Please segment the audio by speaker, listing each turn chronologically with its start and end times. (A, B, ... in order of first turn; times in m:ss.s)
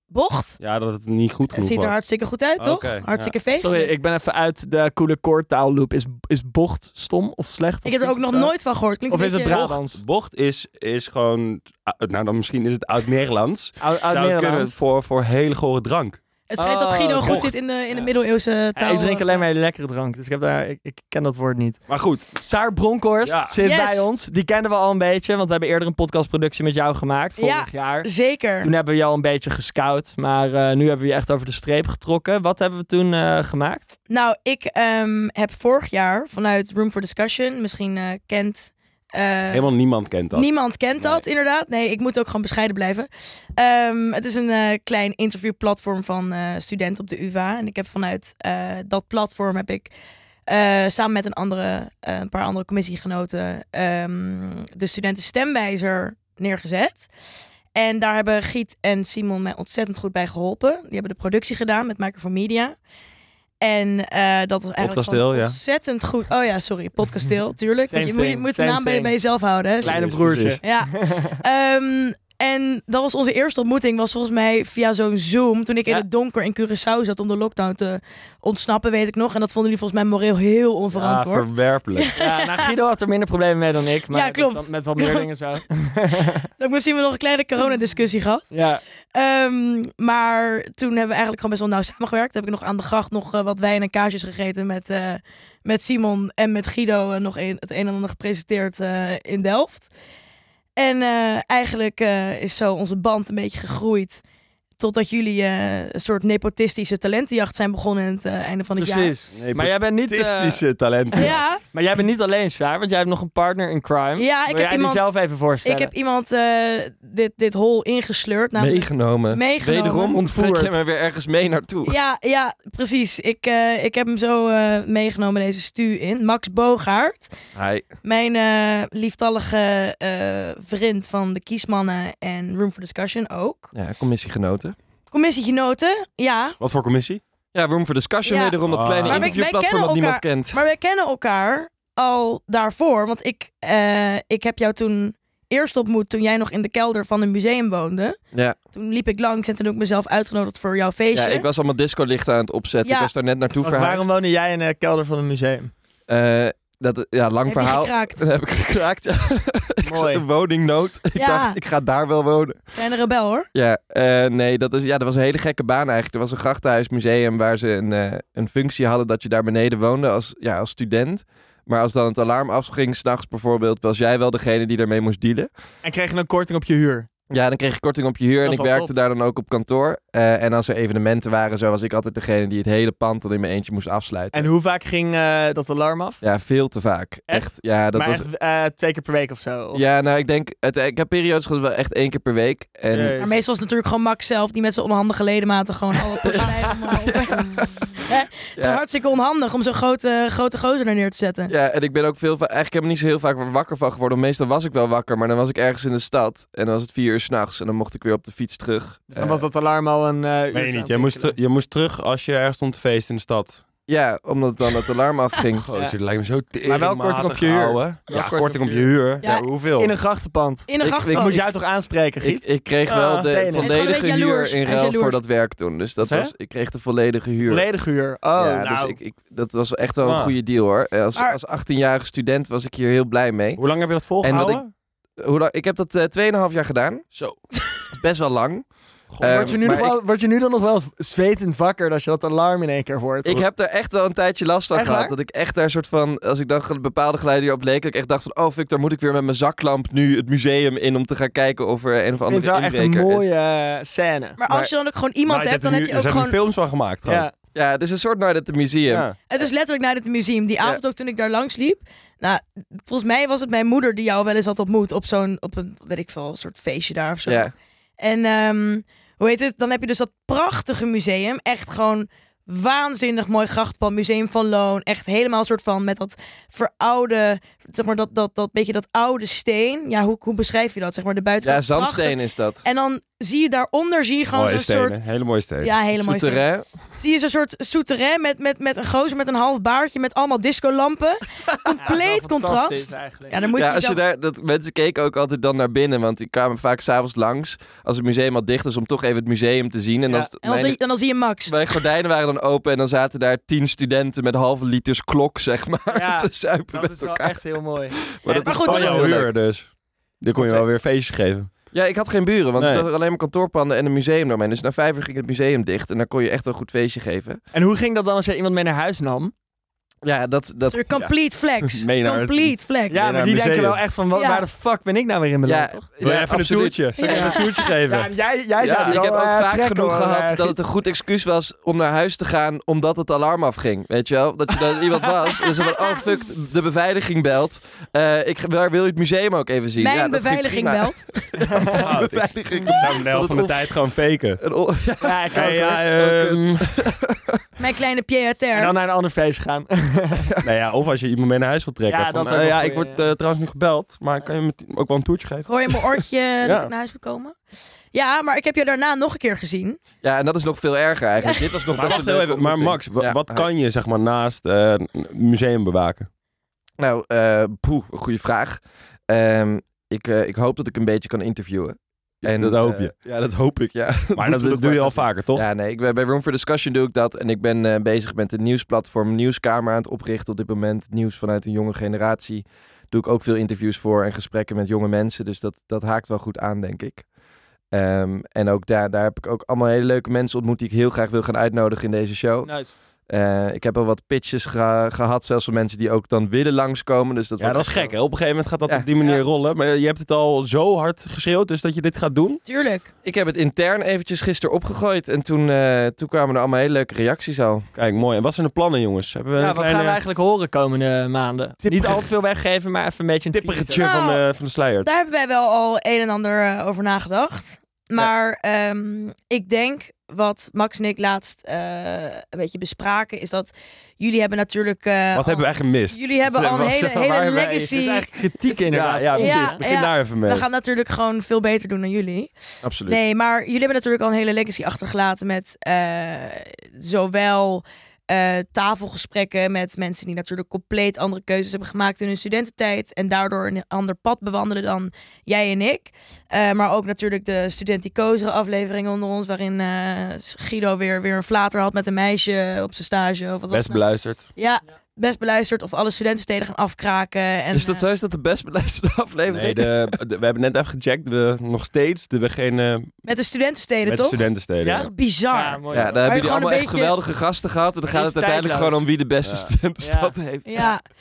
0:00.1-0:00.6 A
0:00.6-0:01.9 B
0:01.5-0:03.9 A
0:02.6-0:03.3 B
0:03.6-0:08.5 C
0:07.8-0:09.6 A
0:09.1-0:10.0 C
0:09.5-0:16.2 B
0:13.8-0:14.8 C
0:16.5-0:19.4 A
0:16.6-0:18.1 C
0:17.2-0:17.6 B
0:18.8-0:21.8 C
0:21.9-0:22.2 B
0:22.3-0:28.1 C
0:23.2-0:23.5 B
0:23.6-0:24.1 A
0:27.4-0:28.7 A
0:28.6-0:33.9 C
0:34.1-0:39.7 A
0:39.5-0:41.2 B
0:40.3-0:49.9 A
0:50.5-0:57.1 A
0:57.7-1:02.8 A
1:03.6-1:10.0 A
1:04.8-1:05.6 B
1:07.9-1:09.2 C
1:09.8-1:11.2 C
1:09.8-1:10.6 B
1:10.6-1:22.7 A
1:20.9-1:22.1 B
1:22.2-1:26.3 C
1:24.1-1:25.3 A
1:26.6-1:28.5 A
1:28.5-1:28.8 C
1:29.2-1:39.9 A
1:40.8-1:44.2 A
1:44.8-1:49.1 A
1:48.8-1:50.6 C
1:49.3-1:51.4 B
1:51.2-1:51.6 A
1:51.2-1:55.9 C
1:54.2-2:00.2 A
1:58.6-2:02.0 D
2:00.1-2:00.8 C
2:01.9-2:07.3 A
2:07.6-2:07.9 D
2:08.0-2:13.7 A
2:13.7-2:14.8 D
2:15.1-2:16.6 A
2:16.6-2:17.2 B
2:17.5-2:20.6 D
2:18.2-2:28.2 A
2:18.7-2:19.4 B
2:28.7-2:31.5 A
2:31.1-2:34.1 D
2:32.8-2:33.1 A
2:33.6-2:35.7 C
2:36.1-2:42.7 D
2:37.5-2:38.2 A
2:39.8-2:40.2 C
2:41.2-2:41.6 A
2:42.8-2:43.5 A
2:43.5-2:55.5 D
2:55.8-2:57.1 C
2:57.3-3:04.5 D
2:58.4-2:58.9 C
3:04.3-3:06.2 C
3:06.2-3:08.3 D
3:07.3-3:09.8 C
3:09.7-3:13.2 D
3:12.9-3:13.5 C
3:13.2-3:21.5 A
3:16.2-3:18.0 D
3:18.6-3:18.8 D
3:21.5-3:29.4 D
3:29.1-3:31.4 C
3:30.5-3:33.6 B
3:33.9-3:35.6 D
3:35.6-3:39.9 B
3:36.6-3:38.9 C
3:39.8-3:42.4 C
3:40.7-3:41.4 A
3:40.8-3:41.5 D
3:42.2-3:47.7 D
3:42.9-3:43.4 B
3:43.2-3:43.8 C
3:43.6-3:45.2 A
3:46.0-3:46.3 C
3:47.4-3:49.0 C
3:48.4-3:53.6 D
3:50.0-3:50.4 B
3:53.6-3:54.7 B
3:54.2-3:54.6 D
3:55.2-3:57.0 D
3:58.0-3:58.7 D
3:59.2-3:59.5 B
3:59.2-4:00.0 D
3:59.2-4:03.4 C
4:03.2-4:13.3 D
4:04.7-4:05.2 C
4:12.2-4:14.4 C
4:14.4-4:16.4 A
4:15.3-4:17.3 B
4:17.0-4:17.3 C
4:17.6-4:19.1 D
4:18.9-4:19.2 B
4:19.3-4:45.0 A
4:27.3-4:27.5 D
4:41.4-4:42.6 D
4:44.3-4:45.8 B
4:45.6-4:54.0 A
4:45.9-4:46.7 D
4:51.8-4:53.4 C
4:53.5-5:00.8 D
5:00.4-5:01.8 A
5:01.5-5:07.4 D
5:05.9-5:09.2 C
5:08.1-5:09.3 D
5:08.4-5:09.0 A
5:08.6-5:11.5 B
5:10.4-5:10.6 D
5:11.7-5:17.4 D
5:12.6-5:12.8 B
5:17.5-5:19.3 C
5:20.0-5:20.8 D
5:20.7-5:23.1 A
5:21.0-5:23.8 B
5:22.9-5:25.9 C
5:24.1-5:24.4 A
5:25.5-5:27.4 D
5:26.0-5:29.0 B
5:27.0-5:27.6 A
5:27.0-5:30.6 C
5:28.7-5:43.7 D
5:39.8-5:41.2 A
5:41.6-5:44.4 B
5:44.4-5:47.2 D
5:45.0-5:45.9 C
5:45.3-5:46.7 B
5:47.6-5:48.7 A
5:48.5-5:50.3 C
5:50.4-5:55.6 B
5:51.9-5:53.1 C
5:55.5-5:57.4 A
5:56.4-5:56.7 B
5:57.9-5:59.8 A
6:00.0-6:03.5 D
6:01.2-6:01.6 A
6:01.8-6:06.1 B
6:06.8-6:27.1 D
6:12.2-6:12.9 B
6:14.2-6:15.5 B
6:27.7-6:32.5 D
6:32.4-6:32.7 C
6:33.1-6:37.9 D
6:37.4-6:42.4 B
6:42.4-6:42.9 A
6:43.0-6:47.6 D
6:47.8-6:50.0 B
6:49.4-6:53.9 C
6:51.6-6:52.1 B
6:53.3-6:54.9 B
6:53.8-6:54.2 A
6:54.8-7:08.1 A
7:05.1-7:07.4 B
7:07.3-7:09.6 C
7:08.7-7:10.4 B
7:09.1-7:12.3 A
7:12.6-7:13.0 D
7:12.8-7:33.8 A
7:33.5-7:34.2 B
7:34.4-7:37.9 A
7:37.5-7:40.0 D
7:39.3-7:43.0 B
7:43.0-7:44.2 A
7:43.8-7:44.9 B
7:44.6-7:46.0 C
7:44.7-7:47.0 A
7:45.7-7:50.6 D
7:47.9-7:48.9 C
7:49.2-7:49.5 B
7:49.8-7:50.7 C
7:50.5-7:50.8 A